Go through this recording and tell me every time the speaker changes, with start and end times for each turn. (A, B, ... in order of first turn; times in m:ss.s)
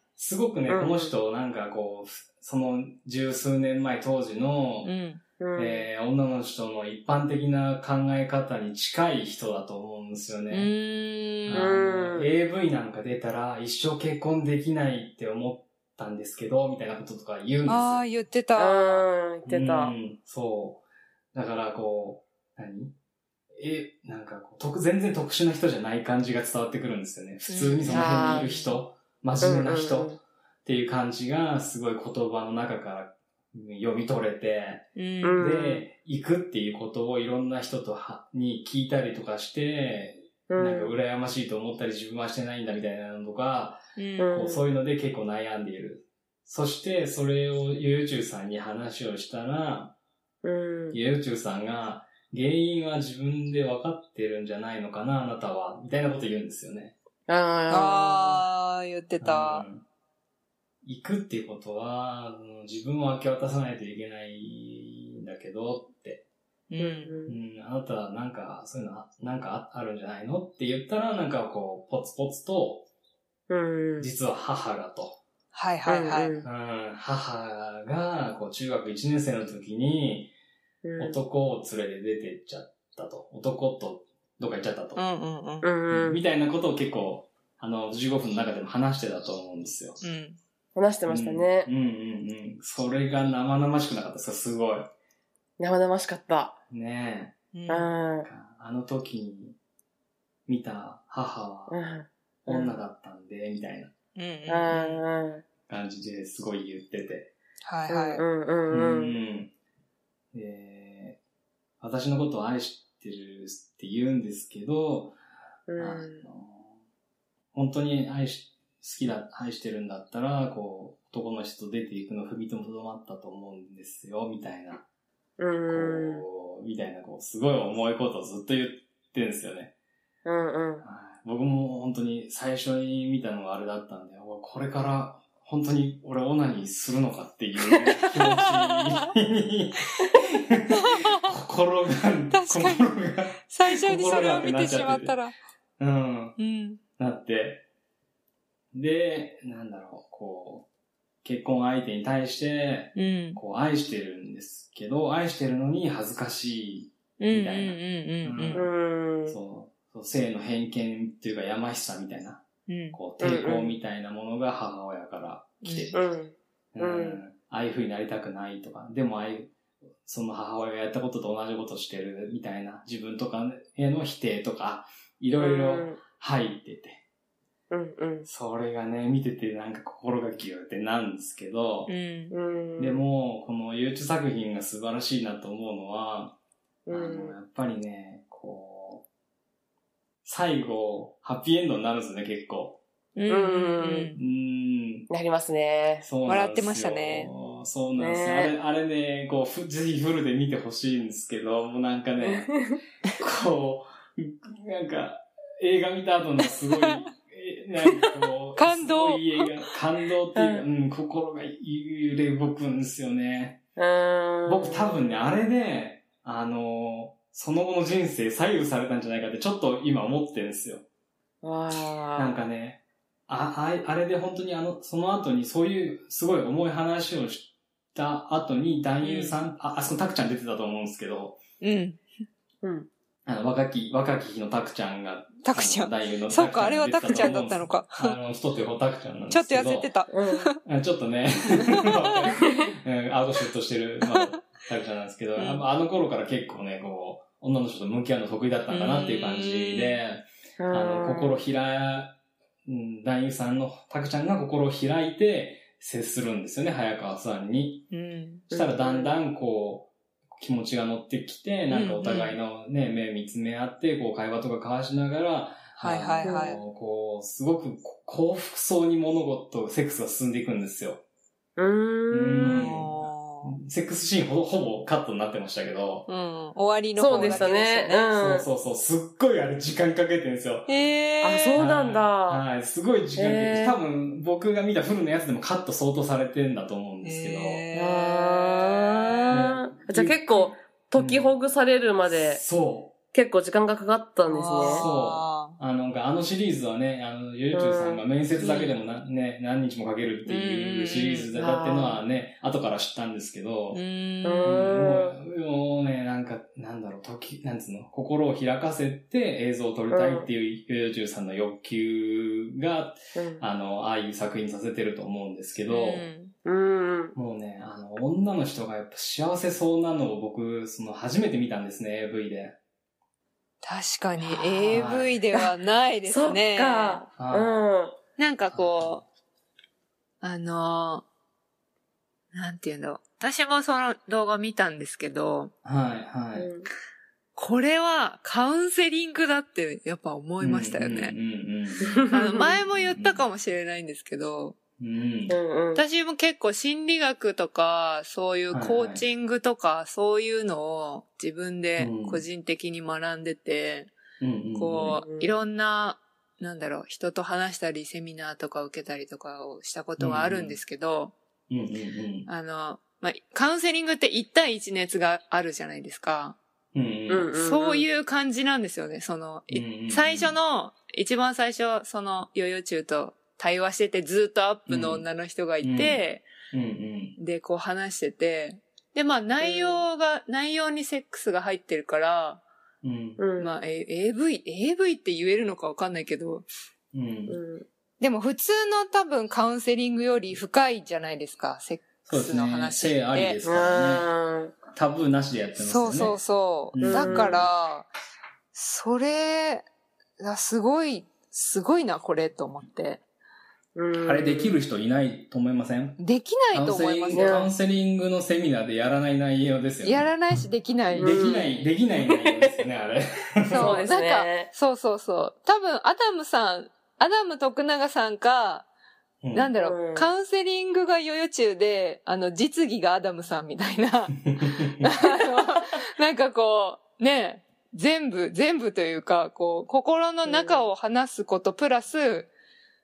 0:00.2-0:04.9 A
0:00.7-0:01.1 B
0:04.8-0:05.2 C
0:05.4-0:05.9 B
0:05.6-0:10.7 A
0:10.5-0:11.7 C
0:11.4-0:18.0 A
0:11.5-0:12.3 B
0:17.7-0:19.0 C
0:18.6-0:20.0 B
0:19.4-0:20.8 A
0:21.3-0:23.0 A
0:23.5-0:30.1 A
0:27.5-0:28.8 C
0:27.9-0:28.5 B
0:29.4-0:30.2 B
0:30.6-0:34.9 A
0:35.0-0:35.4 C
0:35.2-0:35.9 B
0:35.4-0:50.0 A
0:40.5-0:40.9 B
0:44.0-0:44.4 C
0:44.2-0:44.6 B
0:50.4-0:51.0 B
0:50.9-0:57.0 A
0:57.3-0:58.4 B
0:57.7-0:59.7 C
0:59.2-0:59.8 A
1:00.8-1:06.2 A
1:06.7-1:07.2 C
1:06.8-1:07.4 B
1:07.3-1:12.9 A
1:13.5-1:14.1 B
1:14.0-1:15.2 A
1:15.5-1:16.4 C
1:15.9-1:16.5 B
1:16.4-1:20.3 A
1:20.8-1:21.2 B
1:21.0-1:25.0 A
1:25.0-1:25.7 C
1:25.6-1:26.2 B
1:25.9-1:30.0 A
1:30.0-1:30.4 C
1:30.8-1:31.7 B
1:31.1-1:34.9 A
1:35.6-1:36.6 B
1:36.7-1:37.4 A
1:37.5-1:37.9 C
1:37.7-1:38.3 B
1:38.2-1:39.6 A
1:40.5-1:41.8 A
1:41.7-1:42.8 B
1:42.5-1:43.9 A
1:44.2-1:45.0 C
1:44.5-1:45.4 B
1:45.7-1:47.3 A
1:47.6-1:48.2 C
1:47.9-1:49.2 B
1:48.7-1:49.5 A
1:50.3-1:51.2 A
1:51.8-1:55.2 A
1:55.7-1:56.2 B
1:55.8-1:56.7 A
1:57.5-2:04.8 A
2:05.4-2:06.2 B
2:05.7-2:09.7 A
2:10.2-2:10.8 B
2:10.8-2:25.2 A
2:18.4-2:19.0 C
2:20.8-2:21.3 C
2:22.3-2:22.9 C
2:23.5-2:25.3 C
2:25.8-2:26.4 A
2:26.4-2:26.8 C
2:27.0-2:27.6 A
2:28.7-2:30.7 A
2:31.2-2:38.7 A
2:33.0-2:33.4 C
2:37.2-2:38.6 C
2:38.5-2:39.4 B
2:39.3-2:46.0 A
2:42.7-2:43.0 C
2:43.2-2:43.8 B
2:45.6-2:46.0 C
2:45.9-2:47.2 B
2:46.7-2:49.5 A
2:50.0-2:57.0 A
2:55.4-2:56.0 B
2:57.7-2:58.3 B
2:58.2-3:01.9 A
3:01.9-3:02.3 C
3:02.3-3:03.0 B
3:02.8-3:06.4 A
3:06.9-3:07.4 B
3:06.9-3:09.1 A
3:10.2-3:12.8 A
3:13.2-3:14.2 C
3:13.3-3:14.1 B
3:14.2-3:15.1 A
3:15.1-3:16.1 B
3:16.0-3:22.5 A
3:16.3-3:17.3 C
3:18.0-3:18.5 B
3:22.2-3:22.8 B
3:23.2-3:33.6 A
3:28.6-3:29.5 C
3:30.4-3:30.6 B
3:33.8-3:35.4 B
3:34.5-3:40.8 A
3:41.4-3:42.4 B
3:42.2-3:51.4 A
3:49.0-3:49.4 C
3:51.6-3:52.0 C
3:52.6-3:52.9 B
3:53.2-3:59.9 A
3:55.4-3:58.2 C
3:59.3-4:00.6 C
4:00.1-4:00.5 B
4:00.6-4:17.9 A
4:01.6-4:02.4 C
4:02.4-4:02.7 B
4:04.0-4:04.3 C
4:05.4-4:05.6 C
4:08.7-4:10.0 C
4:10.6-4:11.4 B
4:17.9-4:18.4 C
4:18.5-4:19.2 B
4:18.5-4:31.0 A
4:21.7-4:22.4 C
4:25.8-4:26.6 C
4:26.2-4:26.6 B
4:31.6-4:32.7 B
4:32.1-4:36.1 A
4:32.4-4:33.5 C
4:36.1-4:38.1 C
4:37.0-4:38.5 B
4:37.1-4:37.5 A
4:38.1-4:40.7 A
4:40.7-4:41.6 C
4:41.2-4:42.4 B
4:41.6-4:47.6 A
4:43.2-4:43.8 B
4:47.0-4:49.6 C
4:47.7-4:52.4 B
4:49.3-4:51.4 A
4:52.1-4:53.0 A
4:53.1-4:54.9 B
4:54.3-4:55.6 C
4:54.7-5:03.8 A
4:57.5-4:58.0 B
4:58.4-4:58.8 C
5:00.3-5:01.3 C
5:01.3-5:02.0 B
5:03.7-5:04.5 C
5:04.2-5:05.2 B
5:04.4-5:16.1 A
5:09.9-5:10.3 B
5:13.2-5:13.4 B
5:15.7-5:16.3 C
5:16.4-5:17.2 B
5:17.2-5:22.6 A
5:23.6-5:27.0 C
5:24.4-5:24.8 B
5:24.7-5:25.2 A
5:26.1-5:28.0 B
5:27.2-5:27.7 A
5:28.2-5:29.0 C
5:28.5-5:29.0 A
5:30.2-5:31.0 C
5:32.3-5:35.5 C
5:35.6-5:36.5 A
5:36.4-5:36.7 B
5:37.4-5:41.2 C
5:40.4-5:43.2 A
5:41.8-5:42.5 B
5:42.1-5:44.6 C
5:44.8-5:45.4 A
5:45.3-5:45.8 B
5:45.8-5:53.9 C
5:48.5-5:49.0 A
5:51.8-5:52.2 A
5:54.2-5:55.0 A
5:54.6-6:01.1 C
5:54.9-5:55.3 B
6:00.0-6:00.6 A
6:01.5-6:02.3 A
6:02.3-6:06.4 C
6:06.7-6:07.3 A
6:07.1-6:07.9 B
6:07.3-6:16.3 C
6:09.5-6:10.4 A
6:14.7-6:15.0 A
6:15.6-6:17.2 A
6:17.2-6:22.4 C
6:19.4-6:19.8 B
6:22.8-6:23.2 A
6:23.2-6:23.5 B
6:23.4-6:26.5 C
6:26.9-6:27.4 A
6:27.3-6:27.7 B
6:28.0-6:33.4 C
6:32.1-6:34.1 A
6:33.4-6:34.6 B
6:34.7-6:36.2 A
6:35.6-6:37.9 C
6:36.7-6:37.5 A
6:36.8-6:37.5 B
6:38.5-6:39.7 C
6:40.2-6:43.0 C
6:43.8-6:44.6 B
6:44.0-6:46.0 A
6:46.0-6:47.5 C
6:46.5-6:50.1 A
6:47.1-6:47.5 B
6:49.8-6:51.7 C
6:51.0-6:52.5 B
6:51.0-6:53.8 A
6:53.5-6:58.7 C
6:53.6-6:54.5 B
6:59.2-6:59.5 A
6:59.3-7:12.3 C
6:59.6-7:00.1 B
7:04.3-7:04.9 A
7:05.2-7:05.6 B
7:10.3-7:10.7 B